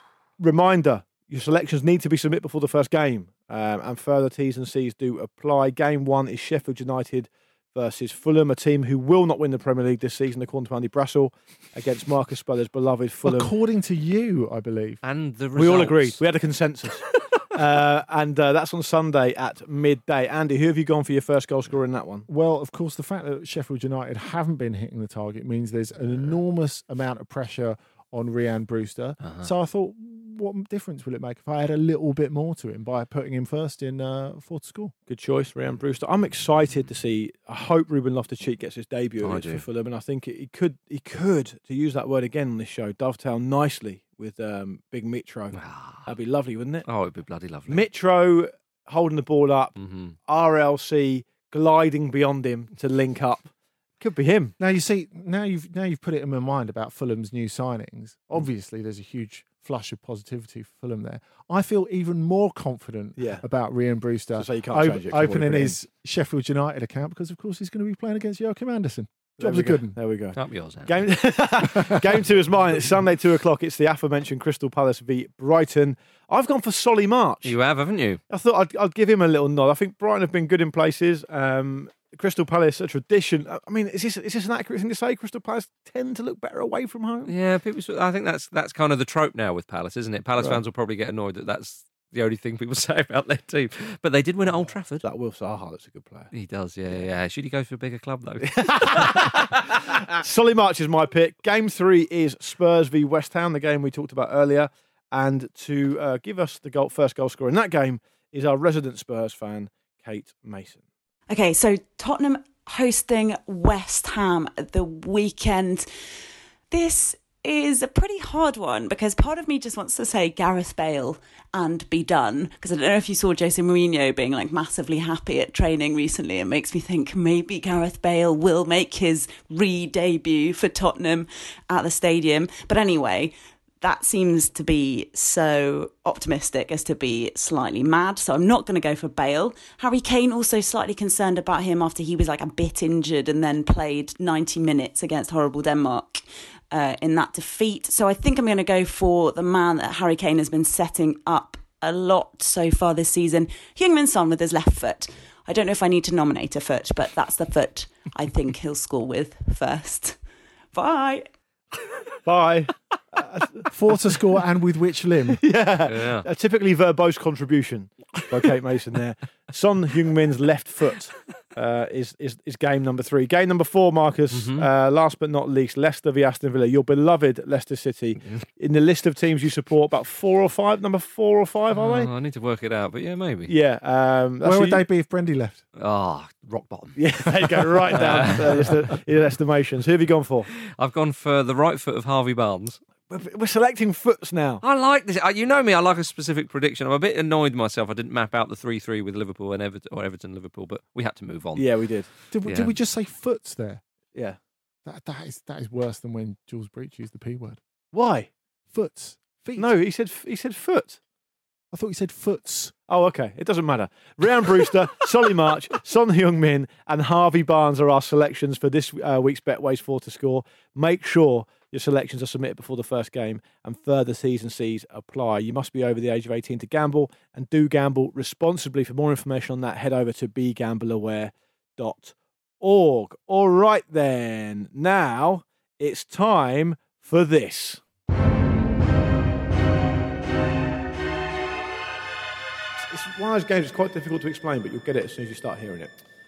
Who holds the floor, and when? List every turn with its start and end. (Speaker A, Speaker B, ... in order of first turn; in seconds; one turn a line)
Speaker A: 0.4-13.5
Speaker B: 13.2-15.0
Speaker C: 15.0-16.2
Speaker A: 15.6-22.3
Speaker B: 22.3-34.9
Speaker C: 29.2-29.5
Speaker A: 35.1-46.9
Speaker C: 39.2-39.6
Speaker C: 45.5-46.1
Speaker C: 46.9-47.9
Speaker A: 47.7-54.5
Speaker C: 49.8-50.1
Speaker B: 54.6-70.0
Speaker A: 63.2-63.4
Speaker A: 64.4-65.8
Speaker A: 69.4-77.5
Speaker C: 70.3-71.0
Speaker B: 71.7-72.0
Speaker C: 77.4-78.2
Speaker A: 78.3-87.3
Speaker C: 87.2-95.0
Speaker A: 95.0-96.3
Speaker C: 96.3-99.6
Speaker A: 98.4-110.8
Speaker D: 111.3-115.9
Speaker D: 116.7-160.2
Speaker D: 160.7-161.2
Speaker A: 162.2-163.7
Speaker B: 163.7-165.4
Speaker A: 165.3-182.1
Speaker C: 165.8-166.3
Speaker C: 174.3-174.7
Speaker C: 181.7-183.5
Speaker A: 183.5-184.8
Speaker B: 184.4-185.6
Speaker C: 185.8-187.0
Speaker A: 186.9-190.5
Speaker C: 187.9-188.7
Speaker C: 190.7-192.8
Speaker A: 193.1-194.6
Speaker C: 194.6-201.7
Speaker A: 201.6-202.1
Speaker B: 202.3-203.8
Speaker C: 202.4-202.7
Speaker B: 204.8-207.6
Speaker A: 207.9-208.3
Speaker B: 208.7-209.7
Speaker A: 209.6-211.0
Speaker B: 211.7-212.7
Speaker A: 212.9-237.8
Speaker A: 242.9-245.9